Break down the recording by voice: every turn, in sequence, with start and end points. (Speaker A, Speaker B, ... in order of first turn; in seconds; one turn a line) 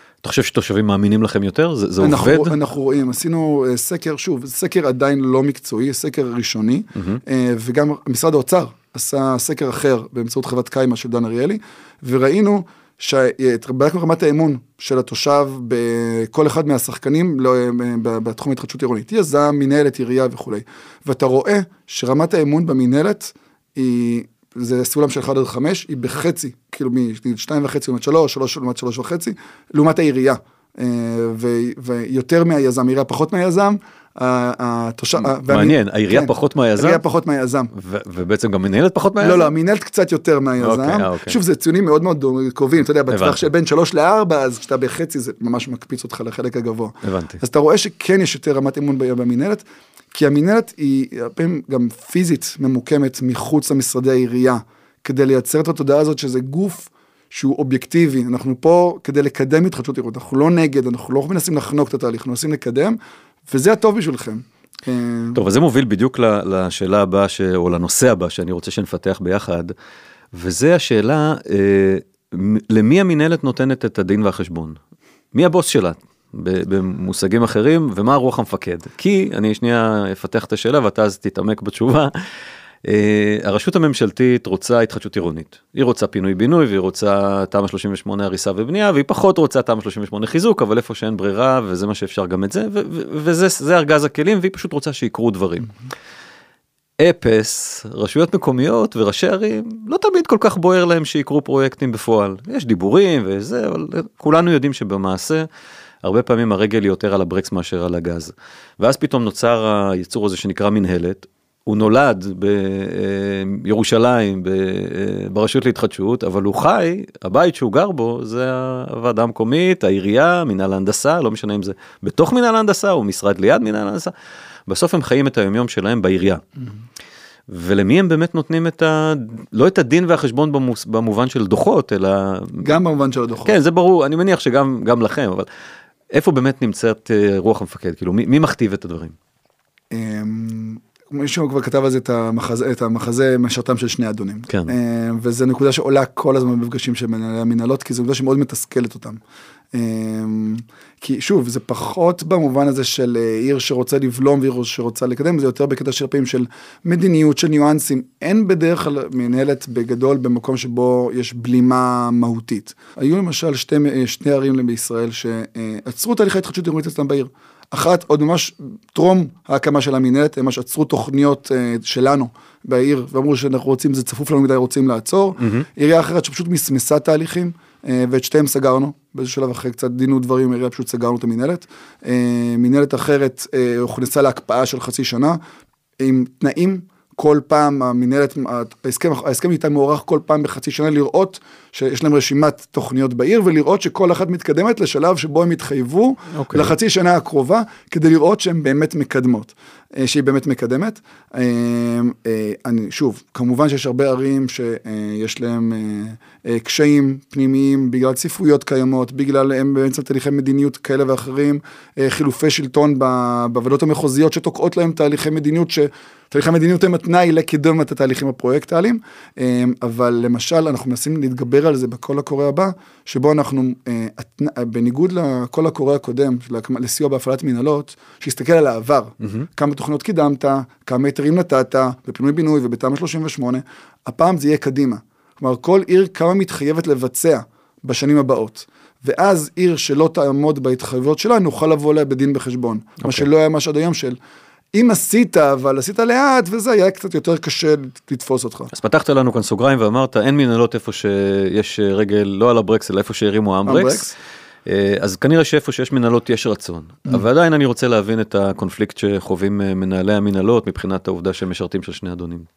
Speaker A: 0.2-2.5
Speaker B: 2.0-37.7
Speaker A: 35.2-37.0
Speaker A: 37.7-39.5
Speaker B: 39.2-49.6
Speaker A: 40.6-41.4
Speaker A: 43.1-43.4
Speaker A: 47.0-47.4
Speaker B: 50.1-63.0
Speaker B: 63.5-65.4
Speaker A: 65.3-69.7
Speaker A: 70.3-74.8
Speaker A: 75.3-82.1
Speaker A: 82.8-95.7
Speaker A: 97.0-105.5
Speaker A: 106.0-124.1
Speaker A: 124.7-126.4
Speaker A: 127.5-132.7
Speaker B: 132.6-133.5
Speaker A: 133.4-135.5
Speaker A: 136.1-139.2
Speaker B: 139.9-149.2
Speaker B: 149.7-185.4
Speaker A: 175.4-175.7
Speaker B: 186.0-244.2
Speaker A: 196.3-196.7
Speaker B: 244.7-248.7
Speaker A: 248.7-254.1
Speaker B: 253.7-254.1
Speaker A: 254.7-262.5